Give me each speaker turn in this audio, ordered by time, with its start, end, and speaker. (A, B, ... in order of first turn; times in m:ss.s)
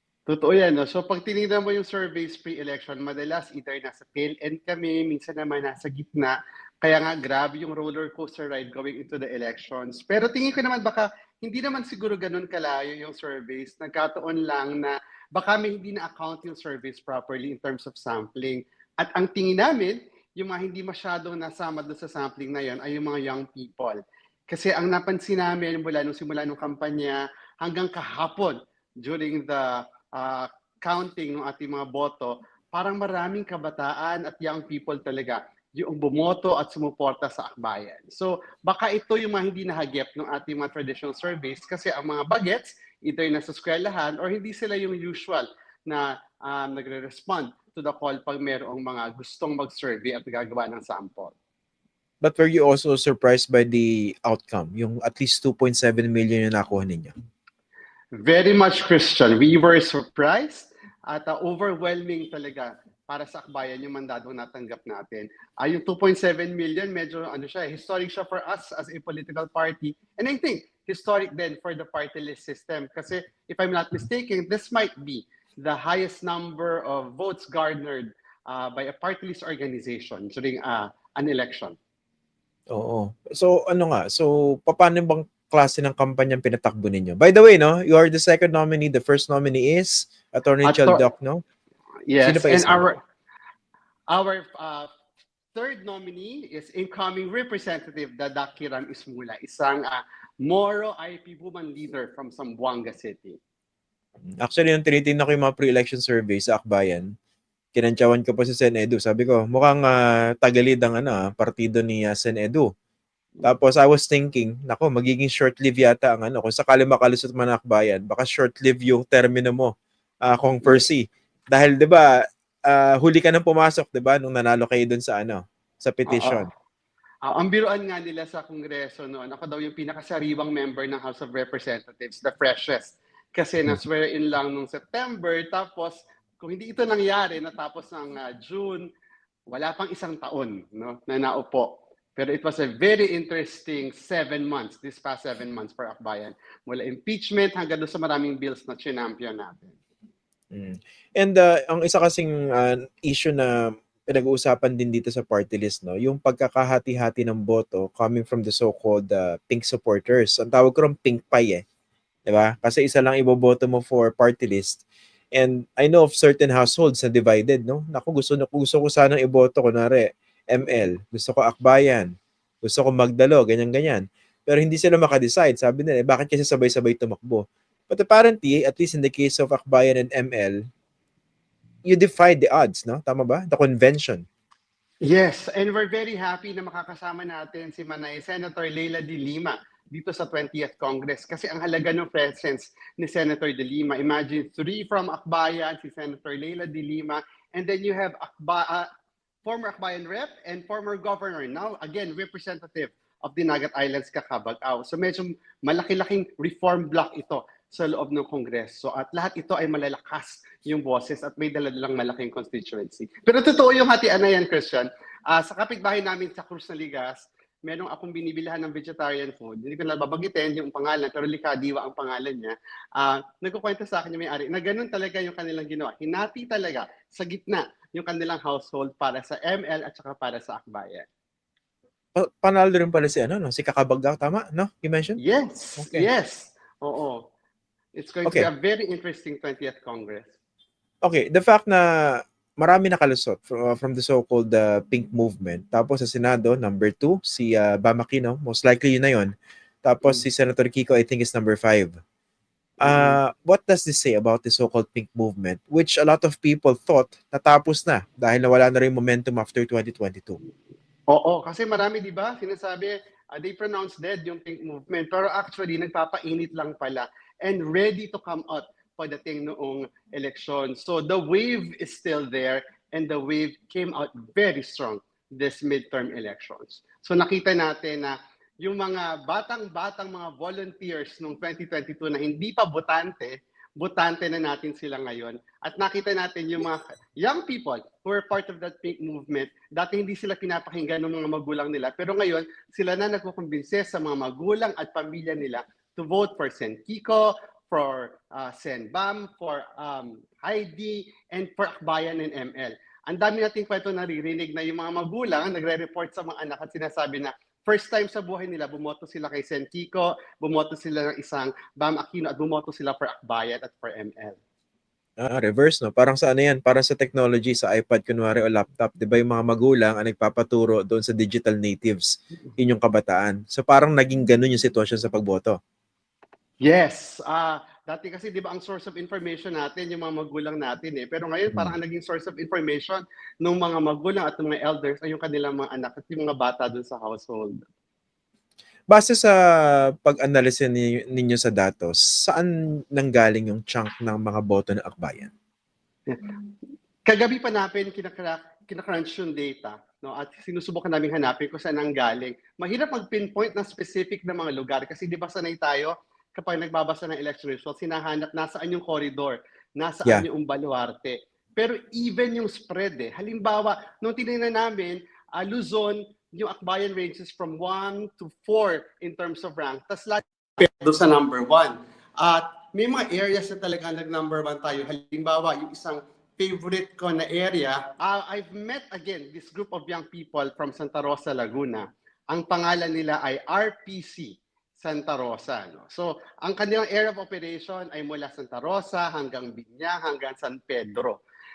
0:00.3-0:24.0 A
0:24.5-0:51.3 A
0:52.2-0:57.1 B
0:58.2-1:21.7 A
1:22.7-1:31.4 B
1:30.6-1:31.0 A
1:32.1-1:33.0 A
1:32.2-1:32.9 B
1:34.1-1:34.9 A
1:35.5-1:43.4 A
1:44.4-1:47.1 B
1:47.7-1:52.7 B
1:53.4-1:59.7 B
2:00.2-2:02.1 B
2:02.7-2:06.5 B
2:06.1-2:06.4 A
2:07.2-2:18.8 A
2:19.5-2:29.8 A
2:30.5-2:41.6 B
2:42.2-2:44.8 B
2:45.3-2:52.1 B
2:52.6-3:00.6 B
3:01.8-3:04.2 B
3:05.0-3:18.8 A
3:19.4-3:51.1 A
3:52.2-3:55.2 B
3:55.2-3:57.2 A
3:55.8-3:56.1 B
3:58.0-4:00.3 A
4:01.0-4:09.3 B
4:09.8-4:11.9 B
4:12.8-4:13.2 A
4:12.8-4:20.4 B
4:21.1-5:14.4 A
5:15.2-5:25.6 B
5:26.6-5:37.6 A
5:38.9-5:45.3 B
5:46.1-5:46.4 A
5:47.0-6:31.2 A